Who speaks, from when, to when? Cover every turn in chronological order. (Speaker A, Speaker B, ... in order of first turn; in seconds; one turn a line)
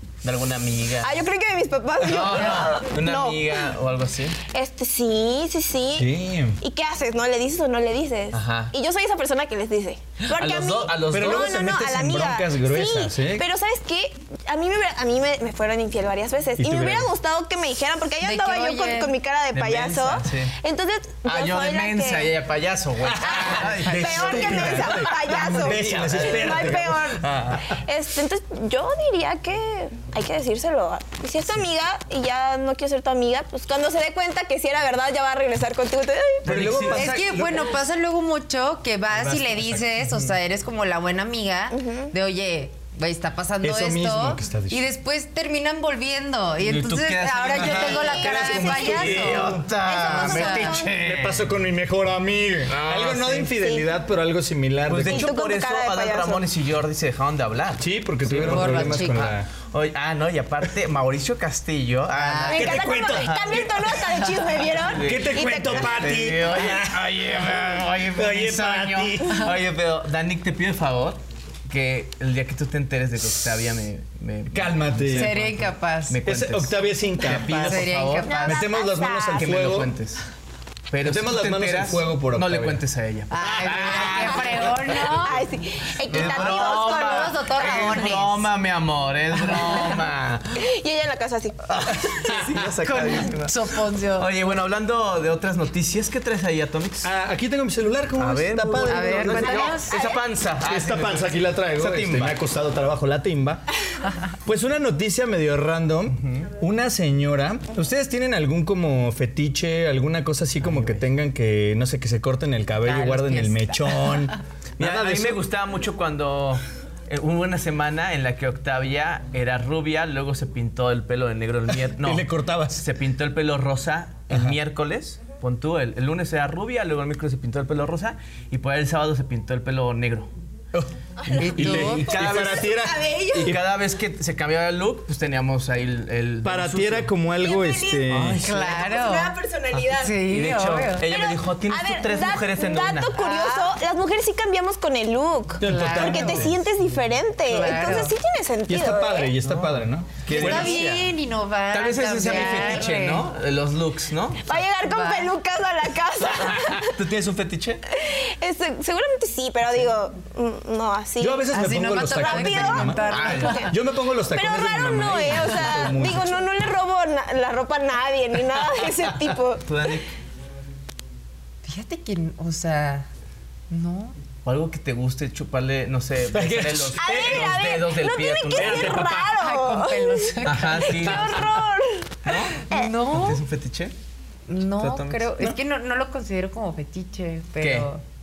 Speaker A: 0.2-1.2
Speaker B: 1.0-3.7
Speaker A: 2.0-4.4
Speaker B: 4.5-22.3
Speaker C: 6.0-6.6
Speaker A: 8.3-8.7
Speaker A: 10.2-11.5
Speaker C: 11.1-13.4
Speaker C: 16.6-17.1
Speaker D: 18.2-19.1
Speaker A: 19.5-20.5
Speaker A: 21.2-27.7
Speaker C: 23.0-27.6
Speaker B: 23.2-36.5
Speaker A: 36.4-37.1
Speaker C: 36.4-37.7
Speaker D: 36.9-50.9
Speaker C: 39.1-40.0
Speaker B: 41.7-42.1
Speaker C: 43.6-44.8
Speaker A: 46.6-51.5
Speaker C: 47.5-49.7
Speaker B: 49.8-50.9
Speaker C: 50.2-55.3
Speaker A: 52.7-53.5
Speaker B: 53.6-53.9
Speaker A: 54.9-63.6
Speaker B: 55.0-56.4
Speaker C: 57.8-59.5
Speaker D: 58.3-59.3
Speaker D: 62.1-62.8
Speaker B: 62.5-66.0
Speaker C: 62.5-67.3
Speaker A: 64.9-78.3
Speaker C: 68.1-69.5
Speaker C: 74.5-75.3
Speaker D: 75.1-76.2
Speaker C: 76.2-77.9
Speaker D: 77.3-78.6
Speaker B: 78.2-79.7
Speaker C: 78.4-79.9
Speaker A: 79.3-80.2
Speaker A: 80.9-85.2
Speaker C: 81.0-82.8
Speaker D: 83.3-85.5
Speaker B: 84.9-87.4
Speaker D: 86.1-88.5
Speaker A: 86.1-90.6
Speaker D: 89.3-90.0
Speaker B: 90.5-91.7
Speaker A: 91.7-97.1
Speaker D: 92.8-94.3
Speaker C: 97.0-99.7
Speaker A: 98.2-102.4
Speaker D: 98.8-100.0
Speaker B: 99.4-100.2
Speaker C: 100.6-103.6
Speaker C: 104.4-115.4
Speaker A: 110.6-111.0
Speaker D: 112.8-114.3
Speaker A: 114.8-130.3
Speaker C: 121.9-122.8
Speaker C: 130.7-133.6
Speaker B: 131.2-133.6
Speaker D: 131.4-132.1
Speaker A: 131.5-132.7
Speaker A: 133.3-137.1
Speaker C: 136.4-138.4
Speaker B: 137.4-140.2
Speaker A: 138.1-138.9
Speaker D: 138.4-139.4
Speaker D: 139.9-141.1
Speaker A: 140.2-143.1
Speaker B: 141.0-149.3
Speaker D: 143.1-143.7
Speaker C: 145.6-146.6
Speaker D: 145.6-146.5
Speaker D: 147.4-148.1
Speaker C: 148.7-150.8
Speaker A: 149.4-151.1
Speaker D: 150.3-153.3
Speaker A: 151.7-154.4
Speaker B: 154.4-156.9
Speaker D: 154.8-155.3
Speaker A: 156.2-157.8
Speaker B: 157.9-161.5
Speaker C: 161.2-166.4
Speaker D: 161.5-163.7
Speaker B: 162.1-163.7
Speaker A: 163.1-163.7
Speaker B: 164.3-169.6
Speaker A: 169.6-170.1
Speaker D: 171.6-173.1
Speaker D: 173.7-174.2
Speaker A: 174.4-179.0
Speaker C: 176.3-177.6
Speaker B: 177.0-182.2
Speaker C: 178.5-179.3
Speaker D: 179.2-181.4
Speaker A: 180.4-181.4
Speaker A: 182.2-183.9
Speaker D: 182.6-183.4
Speaker B: 182.7-182.9
Speaker D: 184.5-188.0
Speaker A: 184.8-185.3
Speaker A: 187.6-187.9